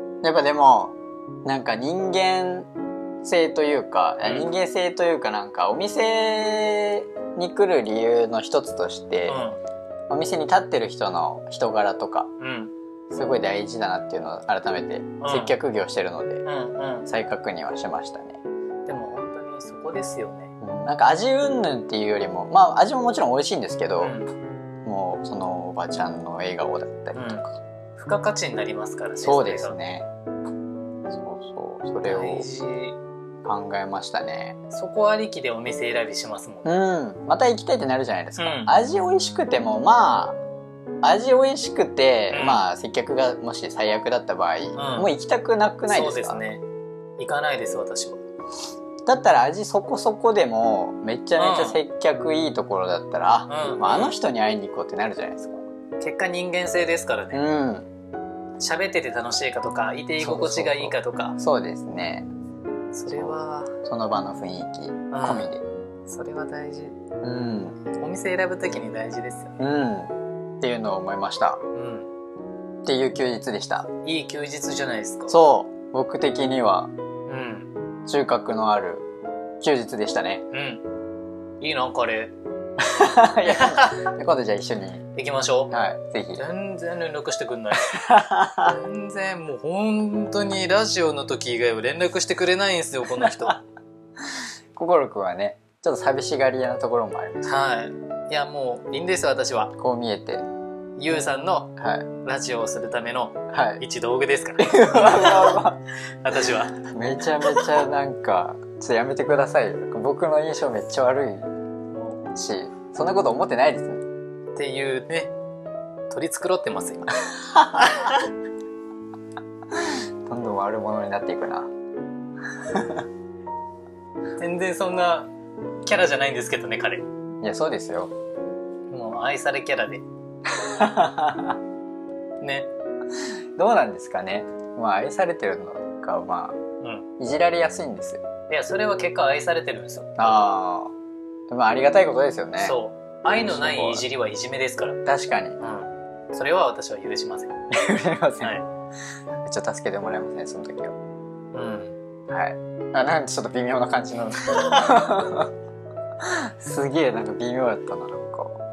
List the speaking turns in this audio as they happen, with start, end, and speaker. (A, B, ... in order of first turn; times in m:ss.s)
0:00.2-0:02.7 A
0:03.2-0:09.4 A
0:04.2-0:04.5 B
0:09.3-0:09.6 B
0:10.1-0:12.3 A
0:12.4-0:12.7 B
0:13.1-0:16.4 A
0:15.2-0:15.5 B
0:16.4-0:17.1 B
0:17.1-0:18.4 A
0:18.9-0:20.5 B
0:20.6-0:24.2 A
0:24.0-0:24.3 B
0:24.8-0:27.5 A
0:27.1-0:27.5 B
0:28.0-0:29.8 B
0:29.2-0:30.1 A
0:31.1-0:32.5 A
0:32.0-0:33.0 B
0:33.4-0:34.6 A
0:34.7-0:36.7 B
0:36.6-0:40.4 A
0:38.4-0:38.7 B
0:41.0-0:46.4 A
0:42.3-0:42.6 B
0:44.8-0:45.1 B
0:45.9-0:46.6 B
0:47.2-0:48.2 B
0:49.0-0:55.6 A
0:51.4-0:51.8 B
0:53.5-0:54.2 B
0:56.0-0:57.4 B
0:57.3-0:57.9 A
0:58.6-1:01.4 B
1:00.2-1:02.3 A
1:02.9-1:03.8 B
1:03.1-1:05.6 A
1:05.1-1:05.5 B
1:06.1-1:07.0 B
1:07.2-1:07.8 A
1:07.9-1:09.6 B
1:09.6-1:11.6 A
1:11.8-1:12.1 B
1:12.8-1:13.9 A
1:14.0-1:15.4 B
1:15.3-1:16.9 A
1:17.3-1:17.7 B
1:18.1-1:19.1 A
1:19.6-1:20.4 A
1:20.5-1:20.8 B
1:21.6-1:22.4 B
1:22.8-1:25.0 A
1:23.4-1:24.1 B
1:25.2-1:25.7 B
1:25.7-1:26.4 A
1:26.4-1:27.9 B
1:27.8-1:28.8 A
1:28.6-1:33.6 B
1:33.2-1:33.6 A
1:34.2-1:37.6 A
1:37.4-1:39.7 B
1:39.8-1:40.4 A
1:41.0-1:45.6 B
1:41.8-1:42.1 A
1:43.5-1:43.8 A
1:44.6-1:45.8 A
1:46.2-1:46.9 B
1:46.8-1:51.5 A
1:51.9-1:52.3 B
1:52.3-1:54.0 A
1:54.6-1:55.3 B
1:56.1-1:57.3 B
1:57.4-1:58.3 A
1:59.7-2:01.7 A
2:02.6-2:03.1 A
2:04.4-2:05.3 B
2:05.9-2:07.0 B
2:07.4-2:08.1 A
2:08.9-2:10.0 B
2:10.5-2:11.6 A
2:12.4-2:12.7 B
2:13.2-2:16.6 A
2:16.8-2:17.1 B
2:17.2-2:18.2 A
2:18.5-2:20.2 B
2:20.2-2:20.9 A
2:21.5-2:22.8 A
2:22.6-2:25.0 B
2:23.3-2:24.1 A
2:25.1-2:25.6 A
2:25.6-2:27.5 B
2:27.7-2:28.6 A
2:28.4-2:28.7 B
2:29.4-2:31.0 A
2:31.5-2:32.0 B
2:32.3-2:35.5 A
2:36.2-2:38.6 A